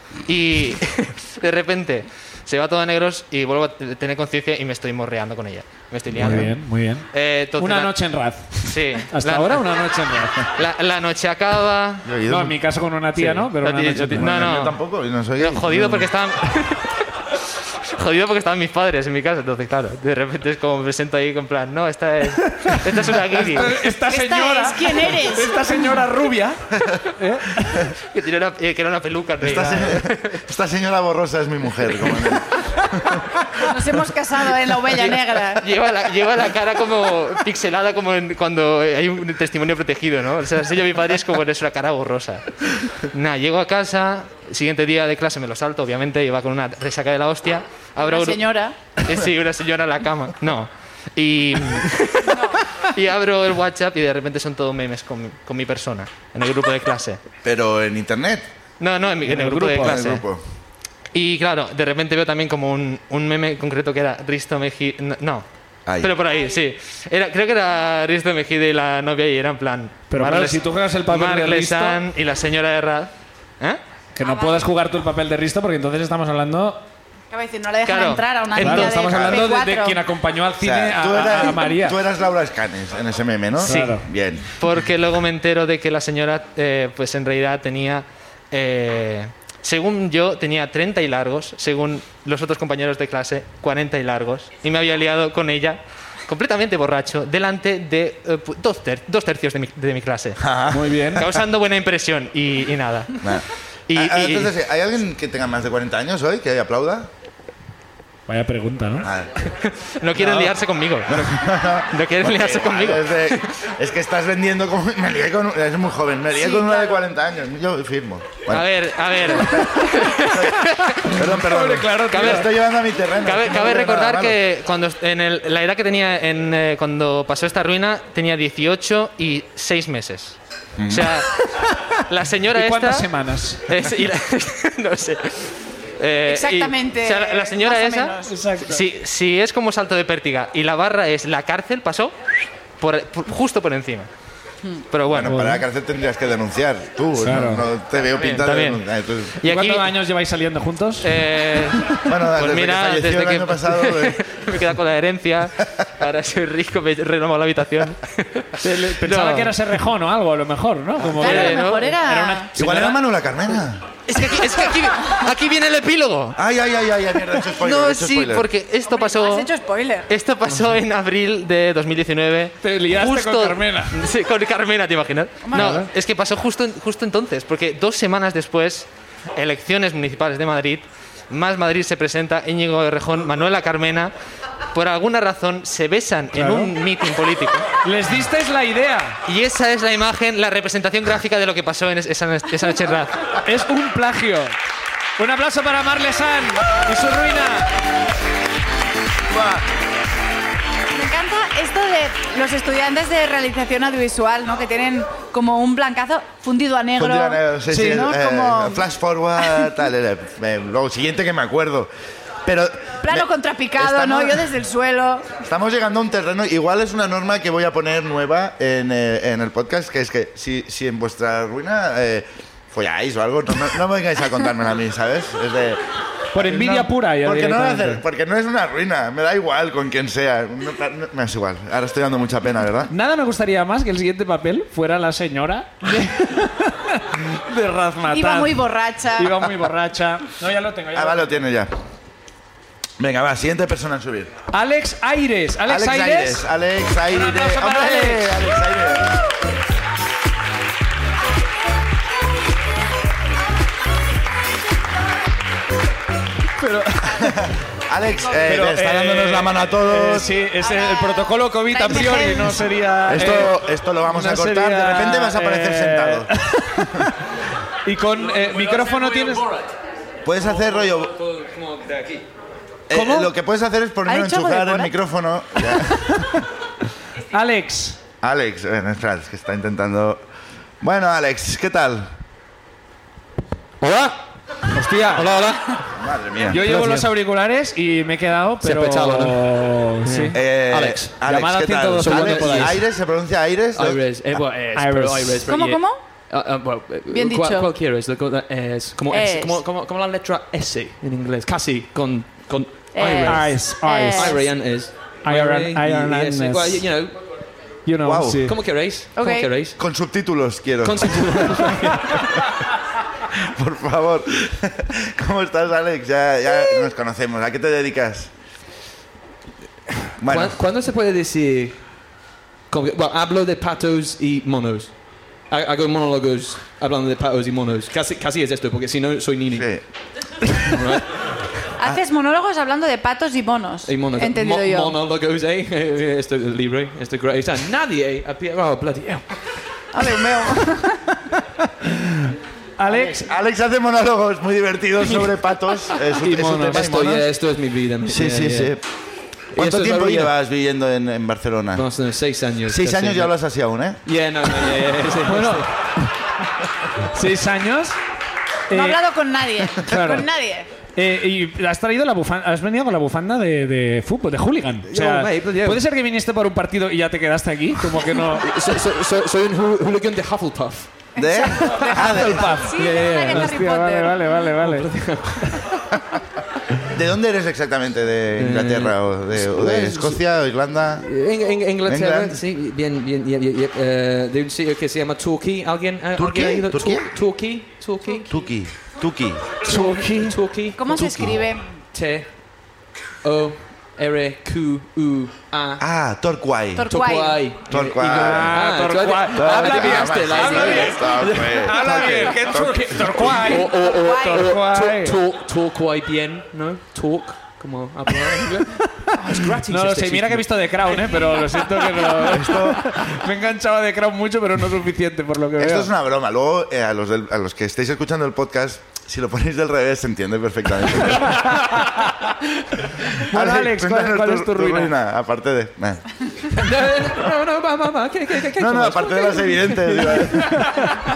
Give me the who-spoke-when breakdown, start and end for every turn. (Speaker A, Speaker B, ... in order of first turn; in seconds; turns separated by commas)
Speaker A: 0.2-7.9, Speaker B: 6.1-10.5, Speaker C: 6.1-6.5, Speaker A: 8.6-9.7, Speaker A: 10.5-12.1, Speaker C: 12.0-12.6, Speaker B: 12.3-14.6, Speaker A: 13.1-14.8, Speaker C: 14.1-16.1, Speaker A: 15.3-23.8, Speaker B: 22.5-27.9, Speaker D: 24.1-25.9, Speaker A: 28.0-30.4, Speaker C: 29.4-33.3, Speaker D: 33.6-35.6, Speaker A: 34.9-48.5, Speaker D: 48.0-48.7, Speaker A: 49.0-57.2, Speaker D: 52.2-52.6, Speaker C: 57.4-58.4, Speaker A: 58.8-60.2, Speaker B: 59.2-60.0, Speaker C: 59.7-60.4, Speaker A: 61.1-65.5, Speaker C: 65.9-66.1, Speaker A: 66.0-73.8, Speaker B: 70.1-72.0, Speaker B: 74.2-76.8, Speaker D: 74.2-74.7, Speaker D: 77.3-80.0, Speaker A: 77.8-79.1, Speaker B: 78.6-82.0, Speaker C: 78.9-79.5, Speaker C: 80.6-84.5, Speaker B: 83.6-84.0, Speaker A: 83.6-84.0, Speaker A: 84.6-100.5, Speaker C: 100.4-101.3, Speaker B: 100.7-101.3, Speaker A: 101.1-103.4, Speaker C: 103.2-107.1, Speaker A: 103.9-104.5, Speaker B: 108.3-109.1, Speaker C: 109.0-109.3, Speaker A: 109.4-113.5, Speaker C: 110.1-110.5, Speaker C: 111.1-118.7, Speaker D: 116.3-117.0, Speaker A: 118.5-121.0, Speaker C: 119.2-119.6, Speaker B: 120.9-122.5, Speaker C: 121.0-124.4, Speaker A: 122.1-122.5, Speaker A: 123.2-131.4, Speaker C: 130.8-131.1, Speaker A: 132.1-133.1, Speaker B: 132.5-133.7, Speaker A: 133.7-142.1, Speaker D: 136.3-138.3, Speaker B: 138.3-138.8, Speaker A: 142.8-144.1, Speaker A: 144.9-145.4, Speaker C: 145.1-149.4, Speaker B: 145.2-145.6, Speaker B: 147.2-147.7, Speaker A: 148.0-148.8, Speaker A: 149.4-149.9, Speaker B: 149.4-151.1, Speaker A: 151.0-159.6, Speaker C: 152.1-154.2, Speaker B: 158.6-163.0, Speaker A: 161.1-162.0, Speaker D: 161.2-162.5, Speaker C: 162.6-163.8, Speaker A: 164.1-166.4, Speaker C: 166.4-168.4, Speaker A: 167.5-169.5, Speaker D: 168.9-170.1, Speaker A: 170.1-184.1, Speaker B: 172.6-174.0, Speaker D: 175.4-175.8, Speaker B: 175.5-175.9, Speaker A: 184.7-187.7, Speaker B: 186.3-186.7, Speaker B: 187.8-189.2, Speaker A: 189.2-193.3, Speaker B: 193.4-194.5, Speaker B: 195.2-197.7, Speaker C: 199.3-199.6, Speaker D: 200.9-208.8, Speaker C: 207.0-211.9, Speaker C: 212.4-214.5, Speaker D: 213.0-215.4, Speaker C: 215.4-225.8, Speaker B: 226.3-228.0, Speaker C: 226.3-232.9, Speaker B: 232.9-238.6, Speaker D: 238.1-239.4, Speaker B: 239.2-241.4, Speaker C: 240.9-241.7, Speaker C: 243.0-244.3, Speaker B: 244.5-246.4, Speaker C: 245.7-249.1, Speaker B: 247.1-248.6, Speaker B: 256.6-257.5, Speaker C: 257.1-260.4, Speaker B: 258.4-267.2, Speaker D: 260.6-262.6, Speaker C: 263.1-267.1, Speaker B: 267.8-269.4, Speaker E: 268.5-269.8, Speaker C: 270.2-271.1, Speaker E: 270.4-272.3, Speaker C: 272.9-276.4, Speaker B: 272.9-273.3, Speaker D: 274.1-274.9, Speaker B: 277.3-278.0, Speaker C: 278.2-280.2, Speaker C: 280.8-282.1, Speaker E: 283.8-284.1, Speaker B: 284.7-285.4, Speaker E: 285.2-285.6, Speaker C: 285.9-286.6, Speaker B: 286.4-290.4, Speaker E: 286.5-287.1, Speaker E: 288.6-291.2, Speaker C: 290.3-294.0, Speaker B: 291.2-292.8, Speaker E: 292.0-292.8, Speaker E: 293.7-307.4, Speaker B: 294.8-295.5, Speaker D: 295.5-296.0, Speaker D: 297.1-297.7, Speaker D: 299.1-299.6, Speaker D: 302.9-304.4, Speaker B: 303.2-304.5, Speaker B: 305.2-306.9, Speaker B: 307.8-308.6, Speaker C: 308.0-308.5, Speaker E: 308.4-309.8, Speaker D: 309.1-309.5, Speaker C: 309.8-311.8, Speaker E: 310.8-312.4, Speaker C: 313.3-318.3, Speaker E: 320.2-329.9, Speaker C: 320.2-320.6, Speaker C: 329.5-329.8, Speaker E: 330.6-331.6, Speaker D: 331.8-334.9, Speaker E: 333.9-339.6, Speaker D: 339.9-341.0, Speaker B: 342.0-343.3, Speaker C: 343.2-347.3, Speaker E: 345.0-345.4, Speaker E: 345.9-348.8, Speaker C: 348.1-348.8, Speaker E: 349.5-350.3, Speaker C: 349.5-351.9, Speaker E: 351.7-353.3, Speaker C: 352.7-354.0, Speaker E: 354.0-355.7, Speaker B: 355.2-356.1, Speaker B: 357.0-358.0, Speaker B: 358.7-359.0, Speaker D: 358.7-360.7, Speaker B: 359.8-360.3, Speaker B: 360.9-368.5, Speaker E: 364.9-365.8, Speaker E: 368.2-371.1, Speaker D: 371.1-374.4, Speaker C: 371.1-372.6, Speaker B: 371.8-375.6, Speaker E: 372.7-373.6, Speaker E: 374.5-375.6, Speaker C: 376.9-381.1, Speaker E: 378.4-380.2, Speaker E: 380.9-388.5, Speaker C: 381.9-382.4, Speaker C: 386.1-387.1, Speaker C: 388.3-389.5, Speaker B: 389.6-390.4, Speaker E: 389.7-395.9, Speaker D: 390.7-391.7, Speaker C: 395.8-396.9, Speaker D: 396.7-397.5, Speaker E: 396.9-402.3, Speaker C: 397.6-398.6, Speaker B: 398.0-405.2, Speaker C: 399.4-403.5, Speaker E: 403.1-411.0, Speaker D: 403.7-404.5, Speaker B: 408.6-415.9, Speaker D: 411.0-411.6, Speaker C: 412.3-412.9, Speaker C: 415.6-421.6, Speaker B: 421.2-422.3, Speaker B: 423.1-424.9, Speaker C: 423.2-426.5, Speaker E: 426.5-430.7, Speaker C: 428.5-430.8